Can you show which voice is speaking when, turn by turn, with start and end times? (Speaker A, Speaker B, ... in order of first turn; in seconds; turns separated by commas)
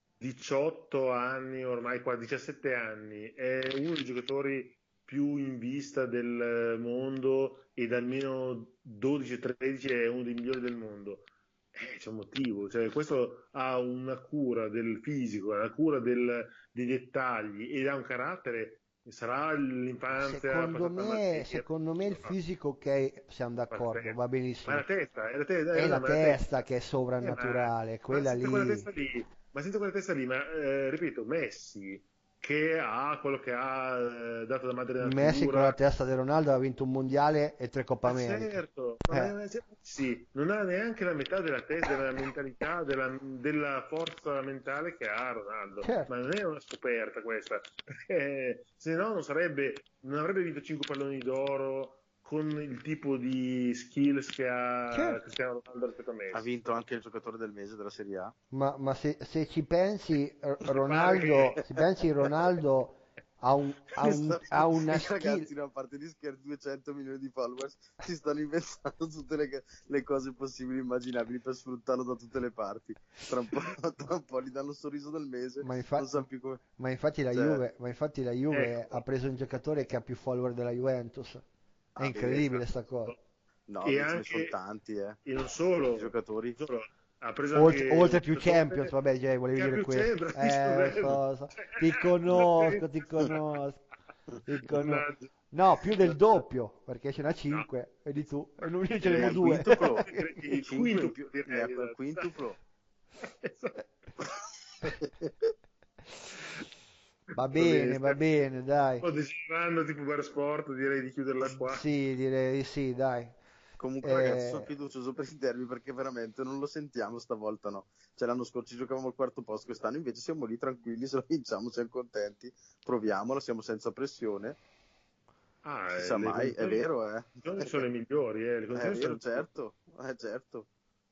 Speaker A: 0.2-22.3, Speaker B: 20.1-24.8, Speaker A: 23.7-26.4, Speaker B: 25.7-28.9, Speaker A: 27.2-35.8, Speaker B: 35.0-38.5, Speaker A: 38.0-56.5, Speaker B: 39.1-39.3, Speaker B: 45.8-46.1, Speaker B: 54.9-55.2, Speaker C: 56.3-58.3, Speaker B: 58.5-65.5, Speaker A: 60.8-61.7, Speaker C: 64.0-76.6, Speaker B: 75.6-76.2, Speaker B: 76.8-81.4, Speaker C: 77.3-77.6, Speaker A: 78.5-79.0, Speaker C: 82.0-82.6, Speaker B: 82.0-83.1, Speaker C: 83.7-85.2, Speaker A: 83.8-84.5, Speaker A: 85.2-88.9, Speaker C: 85.8-86.6, Speaker B: 87.5-93.8, Speaker A: 89.5-93.4, Speaker B: 94.4-100.3, Speaker A: 94.7-95.3, Speaker A: 96.0-96.4, Speaker A: 99.0-102.3, Speaker C: 99.1-102.6, Speaker A: 103.2-104.9, Speaker B: 107.3-109.0, Speaker A: 107.5-108.2, Speaker A: 109.0-111.8, Speaker B: 111.4-113.4, Speaker C: 113.8-124.6, Speaker B: 114.0-114.7, Speaker A: 114.1-114.4, Speaker A: 125.6-126.9, Speaker C: 126.0-127.8, Speaker A: 127.4-129.5, Speaker C: 128.7-130.7